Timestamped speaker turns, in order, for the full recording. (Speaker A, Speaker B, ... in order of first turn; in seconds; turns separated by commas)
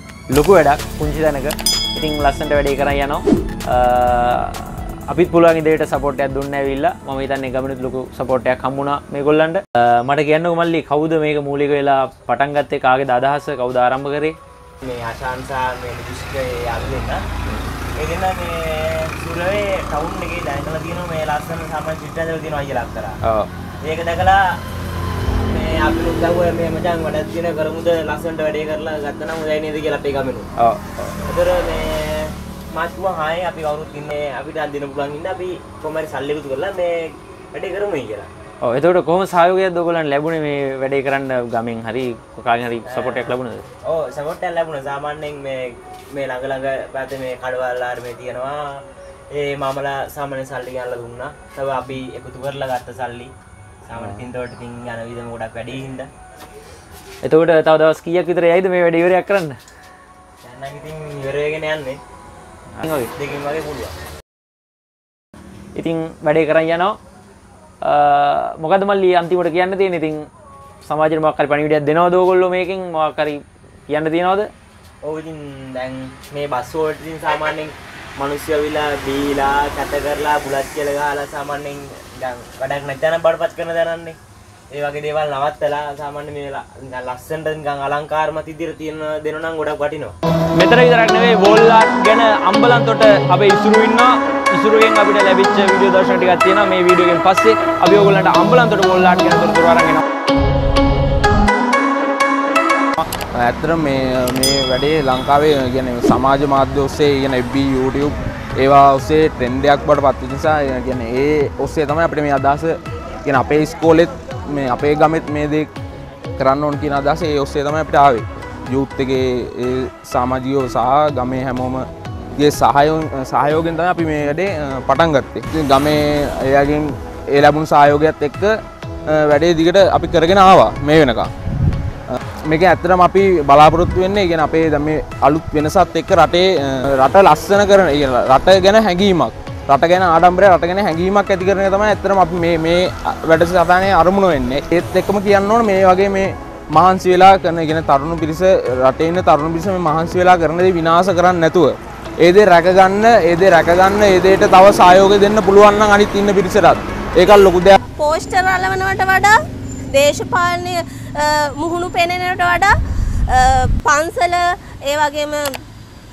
Speaker A: 0.3-14.3, Speaker B: 14.8-17.2, Speaker B: 18.0-23.2, Speaker A: 23.2-23.5, Speaker B: 23.8-24.6, Speaker B: 25.4-30.5, Speaker A: 30.6-30.8, Speaker B: 31.2-38.3, Speaker A: 38.6-43.6, Speaker B: 42.9-53.3, Speaker B: 53.8-56.1, Speaker A: 57.2-59.6, Speaker B: 60.4-62.0, Speaker A: 62.8-63.1, Speaker B: 62.9-63.9, Speaker A: 65.7-67.0, Speaker A: 67.8-70.3, Speaker A: 70.8-74.5, Speaker B: 75.0-84.2, Speaker B: 84.7-90.1, Speaker A: 90.5-100.0, Speaker C: 103.3-115.7, Speaker C: 116.4-128.6, Speaker C: 129.1-131.3, Speaker C: 132.1-157.8, Speaker D: 158.0-159.3, Speaker D: 159.9-162.7, Speaker D: 163.3-165.5